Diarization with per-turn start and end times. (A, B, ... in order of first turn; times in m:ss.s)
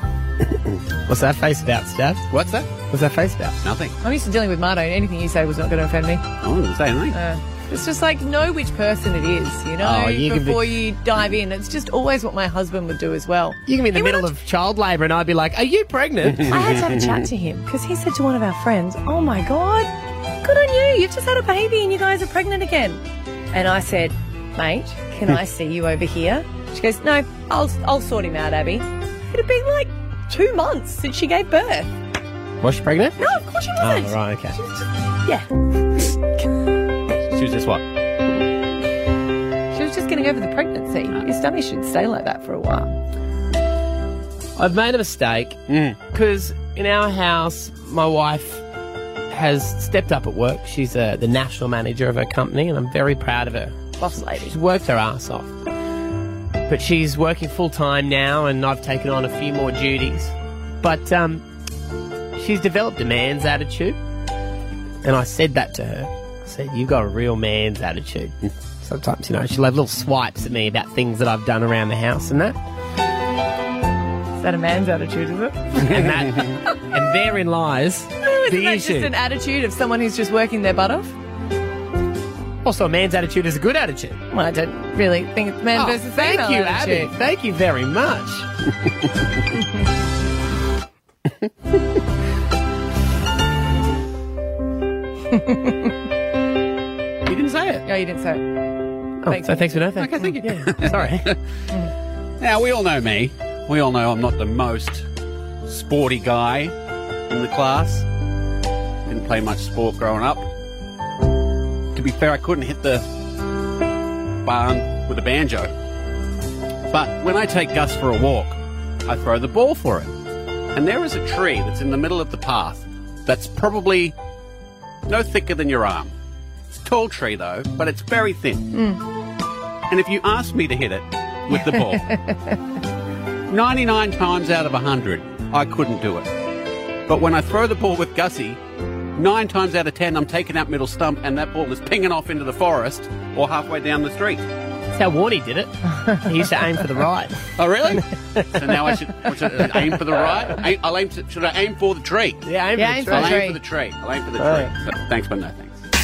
0:01.1-0:02.3 A
0:02.3-0:02.7 B
0:02.9-0:03.6 A
0:03.6-0:04.0 B
0:04.0-0:06.2 C
0:06.4-0:07.2 B
0:07.1-0:14.3 C
0:09.8-0:10.6 A
0:13.7-0:16.5 A
0:16.4-0:19.9 C
0:16.5-0:17.2 B
0:20.4-0:23.0 C
0:23.5-0:31.9 C
0:32.6-0:34.6 A
0:33.2-0:35.5 C
0:37.3-0:37.8 B
0:39.7-0:43.0 C
0:44.6-0:48.6 A
0:45.7-0:46.0 B
0:49.3-0:55.6 A
0:54.0-0:54.5 C
0:56.7-1:01.4 A
1:02.4-1:04.0 A
1:05.0-1:12.6 A
1:14.4-1:16.0 C
1:15.8-1:19.1 A
1:15.8-1:16.6 B
1:18.2-1:21.2 C
1:22.6-1:24.2 A
1:24.3-1:27.1 C
1:25.8-1:28.5 A
1:35.3-1:35.9 C
1:37.3-1:37.8 B
1:37.9-1:40.4 C
1:39.2-1:41.3 A
1:40.0-1:41.7 B
1:42.4-1:45.1 B
1:45.6-1:46.8 B
1:47.3-1:48.1 B
1:49.1-1:50.5 B
1:51.9-1:53.1 B
1:54.4-1:55.7 B
1:56.9-2:00.1 B
2:00.7-2:04.2 B
2:05.1-2:06.1 B
2:06.7-2:08.7 B
2:08.7-2:09.0 C
2:09.9-2:12.2 B
2:11.5-2:12.6 C
2:13.5-2:16.3 B
2:17.1-2:18.6 B
2:19.2-2:24.4 B
2:25.0-2:27.4 A
2:26.0-2:26.3 C
2:27.6-2:32.5 B
2:28.4-2:28.8 A
2:32.4-2:33.4 A
2:32.8-2:33.6 C
2:33.1-2:35.8 B
2:34.4-2:34.7 A